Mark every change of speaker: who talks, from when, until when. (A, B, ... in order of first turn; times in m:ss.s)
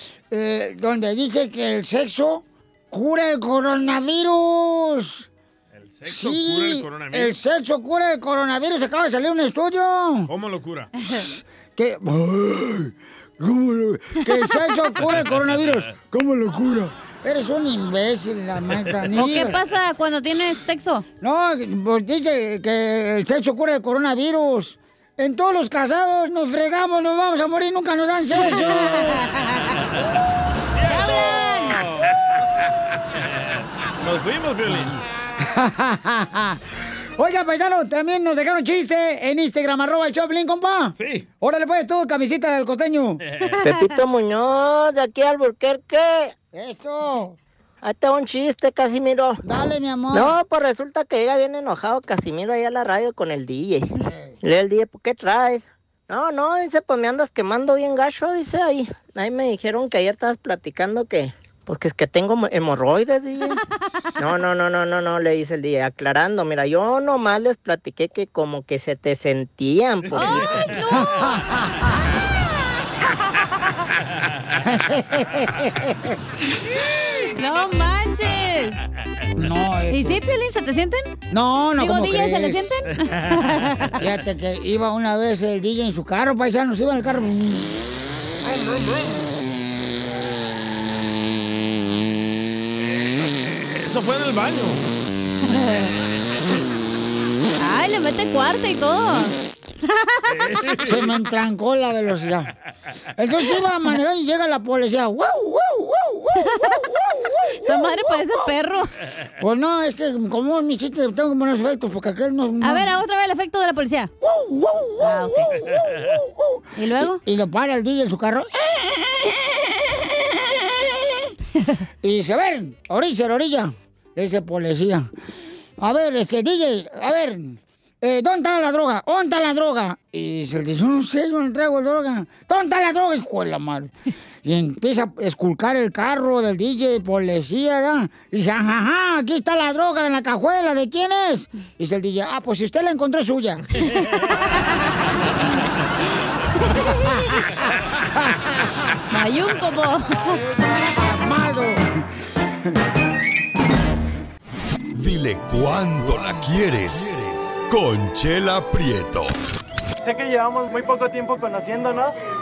0:00.3-0:05.3 A
0:05.8-0:07.4 B
0:06.1-0:10.3 A
0:10.3-0:10.9 B
0:11.2-0:19.6 A
0:15.1-0:15.8 B
0:19.1-0:21.0 C
0:21.2-0:29.1 A
0:28.4-0:29.3 C
0:30.8-0:32.1 B
0:30.9-0:31.8 C
0:33.4-0:35.0 B
0:35.4-0:36.6 A
0:37.2-0:43.2 A
0:41.0-0:41.3 B
0:43.6-0:43.8 C
0:43.6-0:46.3 D
0:46.5-0:47.4 A
0:47.8-0:49.4 D
0:49.4-0:50.4 A
0:50.1-0:53.9 D
0:54.4-1:03.6 D
1:04.2-1:10.6 D
1:10.1-1:10.8 B
1:10.1-1:11.3 C
1:10.9-1:11.9 A
1:14.6-1:16.2 A
1:17.3-1:18.8 C
1:19.4-1:20.2 A
1:19.9-1:21.1 C
1:21.3-1:22.7 A
1:21.8-1:23.9 C
1:23.1-1:23.4 B
1:24.0-1:27.8 A
1:28.5-1:29.2 B
1:33.6-1:34.8 B
1:37.6-1:40.4 C
1:40.3-1:41.1 B
1:40.8-1:42.5 A
1:43.2-1:48.4 A
1:46.5-1:46.7 C
1:47.6-1:48.9 C
1:49.4-1:52.9 A
1:52.6-1:54.1 C
1:54.2-2:00.9 A
1:55.0-1:55.4 C
1:56.8-1:57.2 C
2:02.0-2:05.1 A
2:05.8-2:13.9 A
2:14.4-2:23.6 A
2:26.7-2:27.1 C
2:26.9-2:27.5 A
2:28.2-2:28.5 A
2:29.1-2:30.4 C
2:30.6-2:32.0 A
2:34.9-2:39.3 E
2:40.0-2:42.1 F